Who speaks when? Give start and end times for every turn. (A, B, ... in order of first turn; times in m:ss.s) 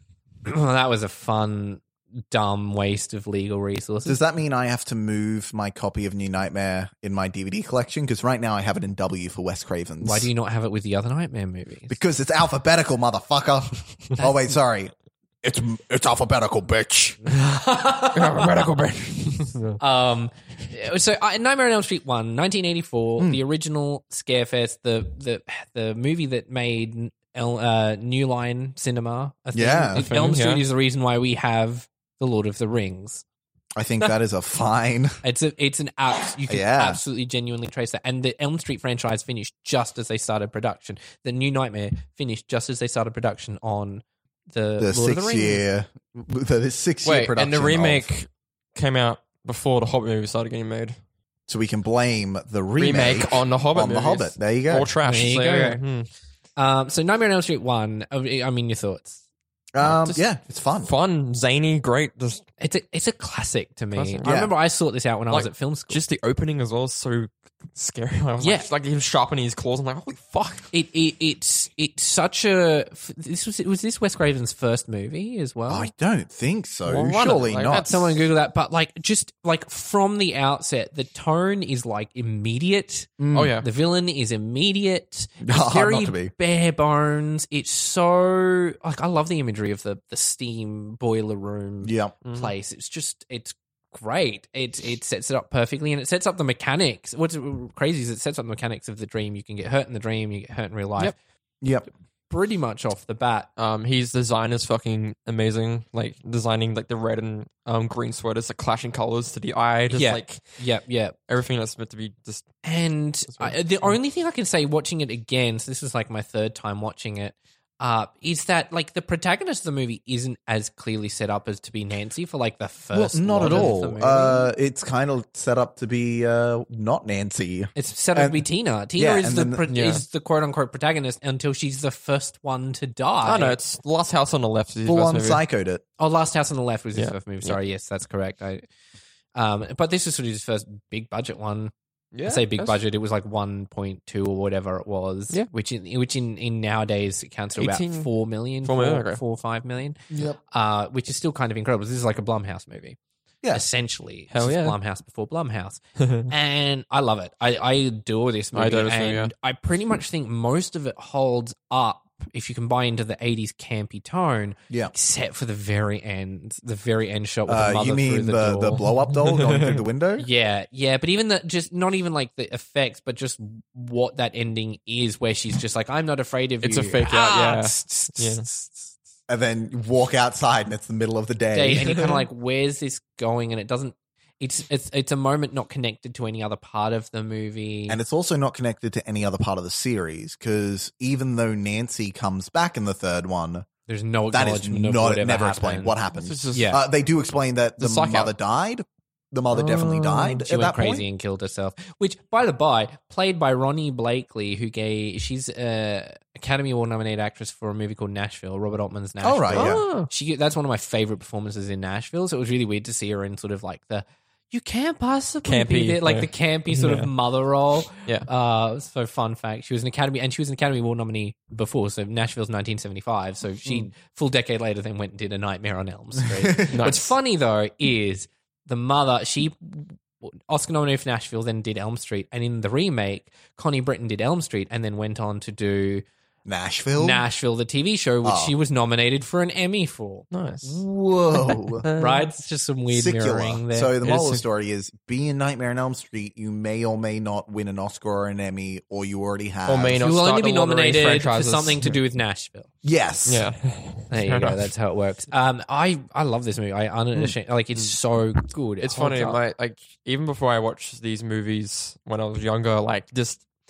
0:00.4-0:04.2 A
0:04.0-0:10.3 B
0:10.0-0:12.0 A
0:11.9-0:17.2 B
0:17.3-0:18.5 A
0:18.1-0:19.8 C
0:19.8-0:33.2 A
0:29.5-0:30.1 B
0:29.9-0:30.6 C
0:33.8-0:35.2 B
0:35.2-0:45.6 A
0:36.5-0:37.0 B
0:44.8-0:48.1 B
0:47.0-0:51.0 C
0:51.5-0:54.9 B
0:52.8-0:56.1 C
0:55.0-0:55.8 A
0:56.6-0:59.2 A
0:59.7-1:00.9 B
0:59.8-1:00.2 C
1:00.8-1:02.4 C
1:02.6-1:06.0 A
1:03.9-1:04.4 C
1:04.2-1:04.5 B
1:05.3-1:10.7 C
1:08.4-1:08.7 A
1:10.7-1:15.9 A
1:15.7-1:17.9 B
1:16.9-1:18.2 C
1:17.1-1:41.2 A
1:23.2-1:23.5 B
1:23.3-1:23.7 C
1:25.4-1:26.3 B
1:31.8-1:32.1 B
1:32.2-1:32.5 C
1:41.6-1:41.9 B
1:42.3-1:43.5 A
1:43.6-1:50.6 C
1:49.9-1:51.2 A
1:51.3-1:52.5 C
1:52.6-2:04.5 A
1:53.3-1:54.0 C
2:02.9-2:08.4 B
2:03.4-2:03.7 C
2:07.8-2:13.6 A
2:09.0-2:09.7 B
2:09.7-2:10.0 C
2:13.2-2:15.4 C
2:14.8-2:15.8 B
2:16.0-2:18.6 A
2:16.9-2:17.6 C
2:19.3-2:21.7 A
2:22.1-2:22.8 C
2:22.2-2:33.0 A
2:27.6-2:28.1 C
2:28.6-2:29.2 C
2:30.1-2:30.4 B
2:33.5-2:48.8 A
2:34.3-2:34.8 C
2:36.0-2:36.3 C
2:38.5-2:39.3 C
2:47.5-2:50.3 B
2:49.3-2:49.8 C
2:50.2-2:58.9 A
2:56.6-2:58.4 C
2:59.3-3:01.9 B
3:01.5-3:08.0 A
3:01.8-3:02.2 C
3:07.9-3:13.6 B
3:13.9-3:16.0 A
3:14.3-3:21.0 B
3:16.1-3:16.8 C
3:16.5-3:16.8 A
3:17.8-3:18.3 C
3:19.5-3:19.8 C
3:19.6-3:56.0 A
3:29.2-3:29.8 B
3:29.5-3:30.1 C
3:35.4-3:37.1 C
3:38.0-3:38.3 C
3:46.4-3:46.8 B
3:46.7-3:47.1 C
3:56.4-3:57.2 B
3:57.0-4:00.3 A
3:58.2-3:58.5 B
4:00.3-4:00.7 C
4:00.6-4:01.8 B
4:01.8-4:02.3 C
4:01.9-4:04.0 A
4:02.9-4:10.0 B
4:04.0-4:04.4 C
4:09.6-4:12.0 C
4:10.0-4:12.7 A
4:12.8-4:13.4 B
4:13.2-4:14.6 C
4:14.1-4:19.4 A
4:17.2-4:17.9 C
4:18.8-4:23.4 C